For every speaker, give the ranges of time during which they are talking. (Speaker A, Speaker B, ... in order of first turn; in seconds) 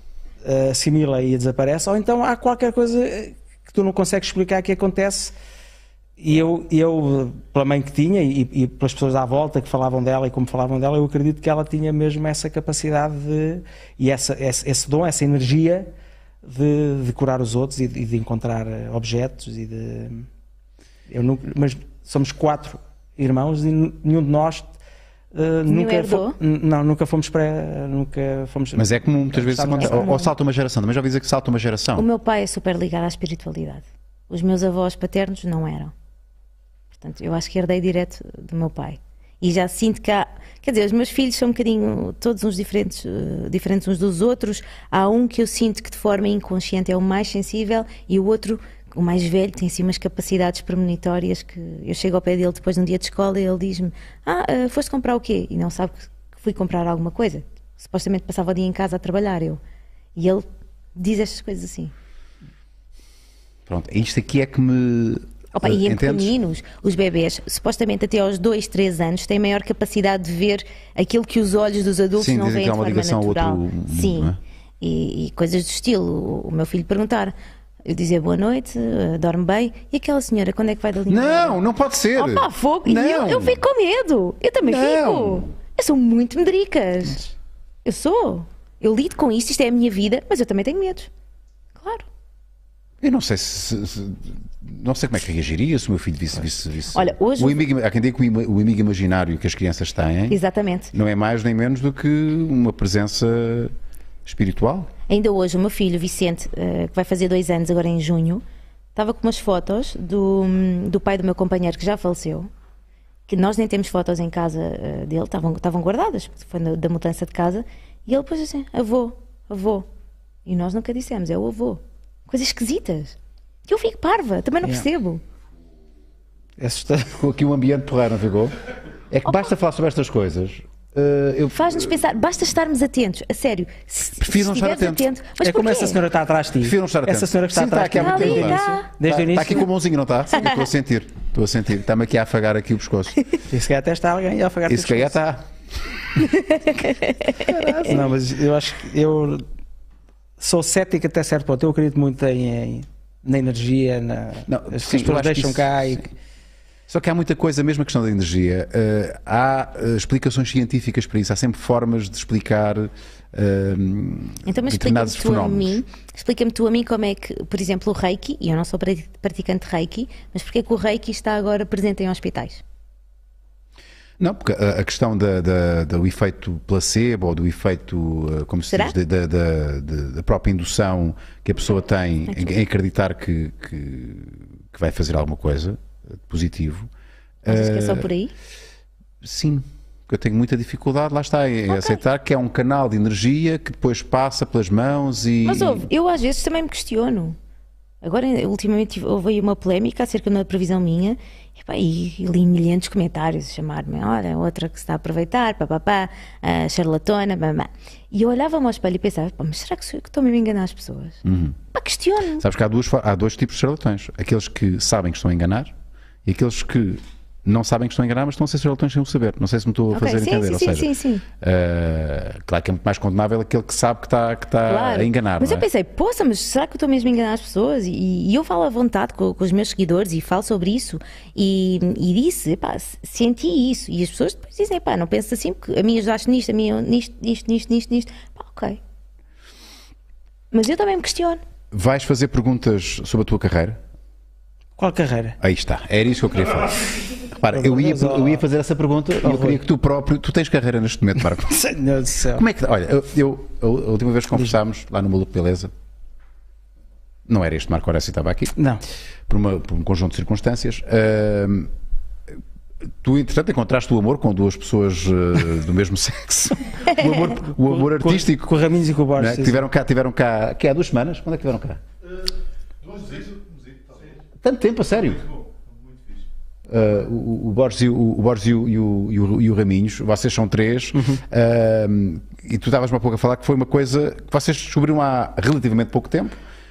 Speaker A: 0.4-5.3, 6.2-15.9, 16.4-20.2, 21.1-24.7, 25.3-30.2, 126.6-127.2, 135.4-139.7, 143.5-145.2, 147.8-149.4, 150.4-156.1, 244.8-245.4, 247.5-248.4, 249.2-249.6, 251.4-252.4, 258.6-258.8, 267.2-269.6, 280.9-281.2
Speaker B: 25.7-26.4, 29.8-30.3, 31.9-35.9, 36.9-59.6, 60.1-61.9, 65.5-81.6, 82.2-87.3, 87.8-91.1, 91.8-92.0, 96.9-97.7, 100.3-100.9, 105.1-108.4, 108.9-112.5, 113.3-119.9, 120.5-123.2, 123.7-125.2, 131.5-136.0, 137.9-138.9, 146.4-147.9, 164.4-172.6, 182.3-182.6, 187.5-188.3, 191.7-192.0, 195.4-197.4, 198.0-211.2, 211.7-212.4, 219.9-221.2, 224.7-238.8, 240.5-241.4
Speaker C: 28.7-32.0, 63.7-66.3, 72.2-74.4, 81.1-83.6, 84.6-85.5, 93.0-100.4, 100.9-103.7, 104.2-104.9, 127.1-128.6, 129.1-131.9, 134.2-135.1, 136.6-143.2, 144.7-145.5, 147.4-148.1, 154.5-156.1, 156.9-165.8, 174.2-186.9, 187.4-188.1, 189.2-195.9, 211.2-211.6, 212.4-215.7, 216.2-225.6, 241.7-243.8, 245.4-251.6, 252.3-255.7, 257.2-258.6, 259.3-261.7, 263.0-268.5, 269.1-271.8, 274.4-275.3, 276.7-286.4
Speaker D: 272.8-274.2, 275.0-276.2